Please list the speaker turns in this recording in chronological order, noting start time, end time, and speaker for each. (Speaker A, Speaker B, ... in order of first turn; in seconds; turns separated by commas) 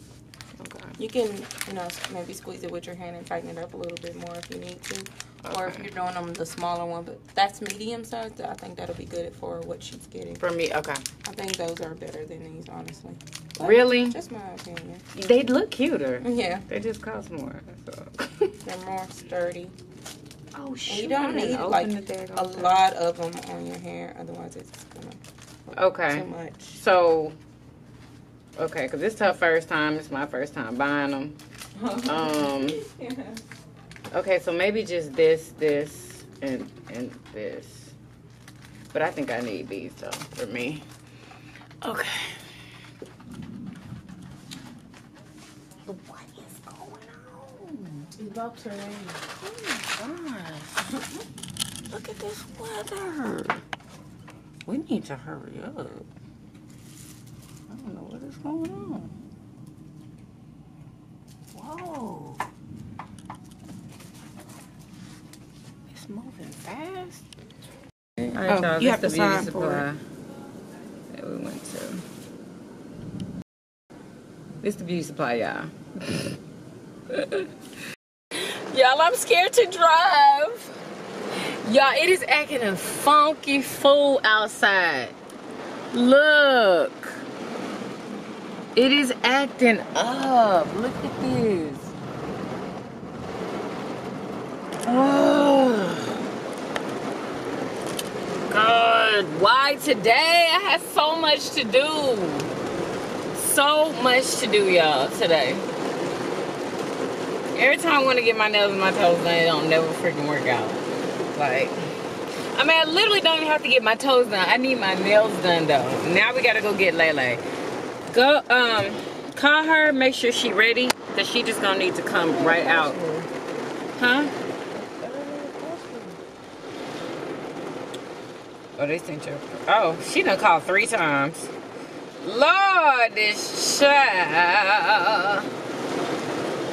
Speaker A: 0.6-1.0, Speaker B: 1.0-10.5, Speaker A: 5.4-5.9, Speaker A: 10.4-11.0, Speaker B: 11.2-15.1, Speaker A: 13.6-14.2, Speaker A: 15.1-18.5, Speaker B: 16.2-16.6, Speaker B: 18.6-19.8, Speaker A: 20.5-22.9, Speaker B: 20.9-26.8, Speaker A: 25.8-27.4, Speaker A: 28.6-31.4, Speaker B: 31.8-33.4, Speaker A: 32.0-32.8, Speaker A: 34.1-37.9, Speaker A: 38.9-40.9, Speaker A: 41.8-42.4, Speaker A: 45.9-48.1, Speaker C: 48.2-49.2, Speaker A: 49.4-50.9, Speaker A: 51.9-53.6, Speaker A: 54.7-56.1, Speaker A: 57.7-59.2, Speaker A: 61.5-62.4, Speaker A: 65.9-67.2, Speaker A: 68.2-70.0, Speaker B: 68.5-69.8, Speaker A: 71.1-72.0, Speaker A: 74.6-76.2, Speaker A: 77.1-77.5, Speaker A: 78.3-80.8, Speaker A: 81.6-85.2, Speaker A: 85.9-87.2, Speaker A: 88.8-91.9, Speaker A: 94.8-96.2, Speaker A: 98.5-102.5, Speaker A: 103.3-105.7, Speaker A: 107.5-111.8, Speaker A: 112.5-117.4, Speaker A: 118.1-123.0, Speaker C: 122.2-123.3, Speaker A: 124.0-124.3, Speaker C: 124.7-126.2, Speaker A: 128.8-131.5, Speaker A: 132.2-135.5